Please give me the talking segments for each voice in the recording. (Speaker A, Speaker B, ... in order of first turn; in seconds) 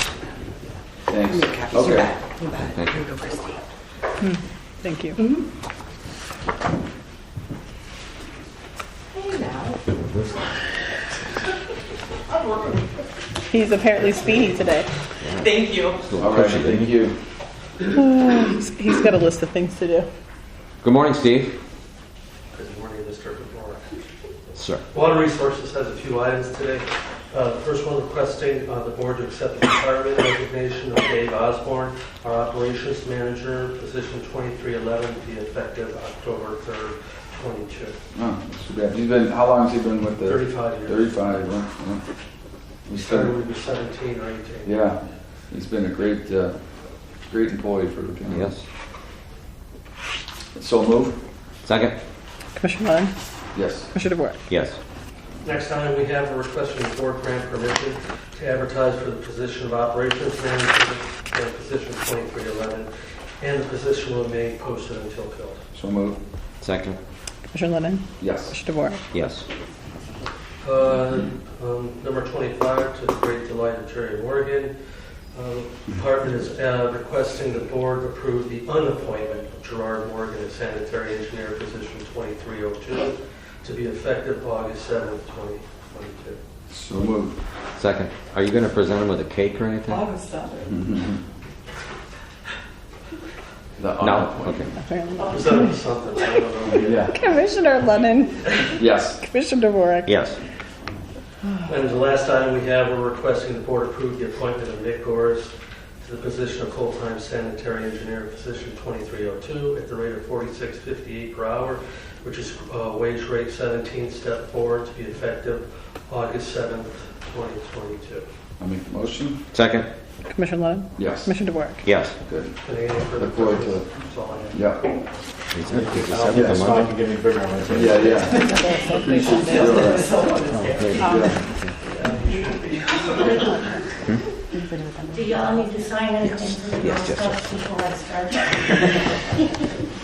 Speaker A: 1.1-2.1, 16.2-17.1, 38.1-42.0, 42.9-43.3, 44.6-46.5, 47.2-48.5, 50.5-51.2, 53.5-53.9, 65.7-66.2, 68.2-68.5, 86.7-87.4, 90.7-91.2, 93.8-94.7, 96.7-97.1, 98.7-99.2, 118.6-119.4, 121.0-121.4, 122.2-122.5, 123.0-123.9, 124.5-124.9, 127.7-130.2, 131.0-131.4
Speaker B: 1.3-3.6, 129.3-130.4, 130.9-131.3, 132.3-133.4, 134.5-135.1
Speaker C: 2.7-3.0, 9.3-10.3, 15.2-17.0, 20.8-21.6, 24.5-24.8, 48.2-48.6, 51.6-52.0, 54.5-54.8, 66.6-67.0, 69.1-69.4, 87.8-90.4, 94.0-94.7, 100.0-100.4, 119.5-119.9, 121.8-122.2, 125.5-127.0, 129.7-131.8, 137.0-137.4, 138.7-138.9
Speaker D: 4.2-5.2, 13.5-14.9, 17.9-20.1, 52.5-53.1, 53.9-54.4, 67.5-69.0, 94.7-95.7, 97.0-100.1, 120.3-121.8, 128.3-130.2
Speaker E: 22.5-23.8, 24.9-38.0, 40.2-41.1, 42.9-44.9, 55.4-62.9, 63.4-65.6, 70.6-86.4, 95.2-97.1, 101.6-118.2, 122.6-124.6, 129.5-130.0, 131.9-133.3
Speaker F: 125.7-128.5
Speaker G: 133.1-133.7, 135.1-139.1